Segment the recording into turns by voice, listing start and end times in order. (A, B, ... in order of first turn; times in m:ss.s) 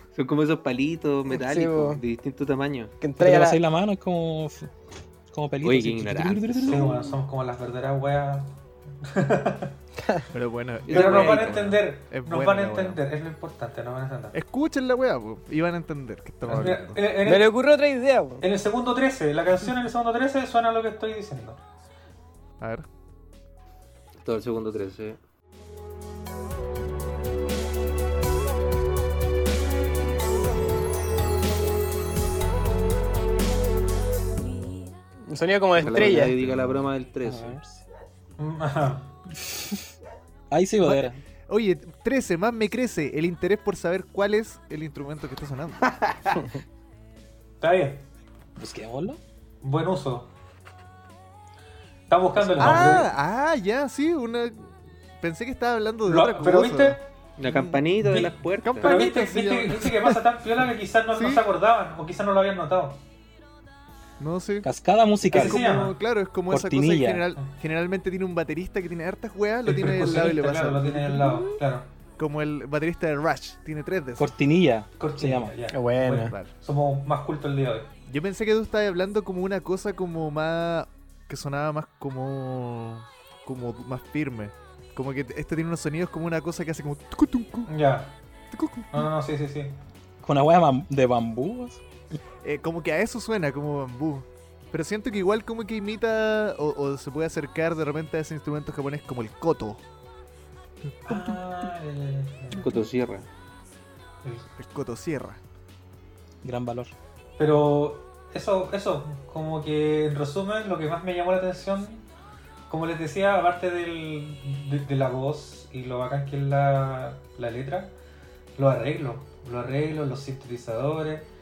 0:00.1-0:03.0 A
0:01.3-0:02.0 B
0:03.0-0:03.6 B
0:03.2-0:04.7 C
0:05.3-0:07.0 C
0:05.6-0:06.8 A
0:06.6-0:08.5 D
0:09.0-0:09.7 D
0:10.3-0:13.0 E
0:10.9-0:11.5 A
0:10.9-0:14.4 D
0:14.3-0:17.0 E
0:16.4-0:17.5 D
0:17.2-0:18.4 B
0:18.4-0:21.6 D
0:22.6-0:22.9 E
0:24.2-0:25.2 A
0:35.3-0:36.4 B
0:35.8-0:37.6 A
0:37.2-0:37.8 C
0:38.4-0:39.1 D
0:40.5-0:41.2 C
0:40.8-0:46.5 E
0:47.6-0:48.0 D
0:48.6-0:49.2 C
0:49.6-0:50.3 D
0:52.1-0:53.1 D
0:52.6-1:00.6 E
0:56.1-0:57.0 D
0:57.4-0:59.0 A
0:58.0-1:03.0 D
1:01.2-1:01.5 E
1:04.2-1:04.7 E
1:04.6-1:05.6 C
1:05.3-1:06.0 D
1:05.3-1:11.6 E
1:06.5-1:07.2 C
1:09.7-1:11.9 D
1:12.2-1:14.3 E
1:14.2-1:15.5 C
1:15.0-1:17.9 D
1:15.7-1:16.3 B
1:18.1-1:27.7 E
1:27.7-1:28.2 D
1:28.5-1:29.1 E
1:28.9-1:29.7 D
1:30.2-1:31.8 C
1:32.4-1:39.8 E
1:41.0-1:42.7 D
1:41.1-1:41.4 E
1:42.6-1:43.3 A
1:44.2-1:44.5 D
1:44.6-1:45.4 E
1:46.4-1:46.9 C
1:47.4-1:52.0 D
1:52.7-1:57.9 D
1:58.6-2:01.3 D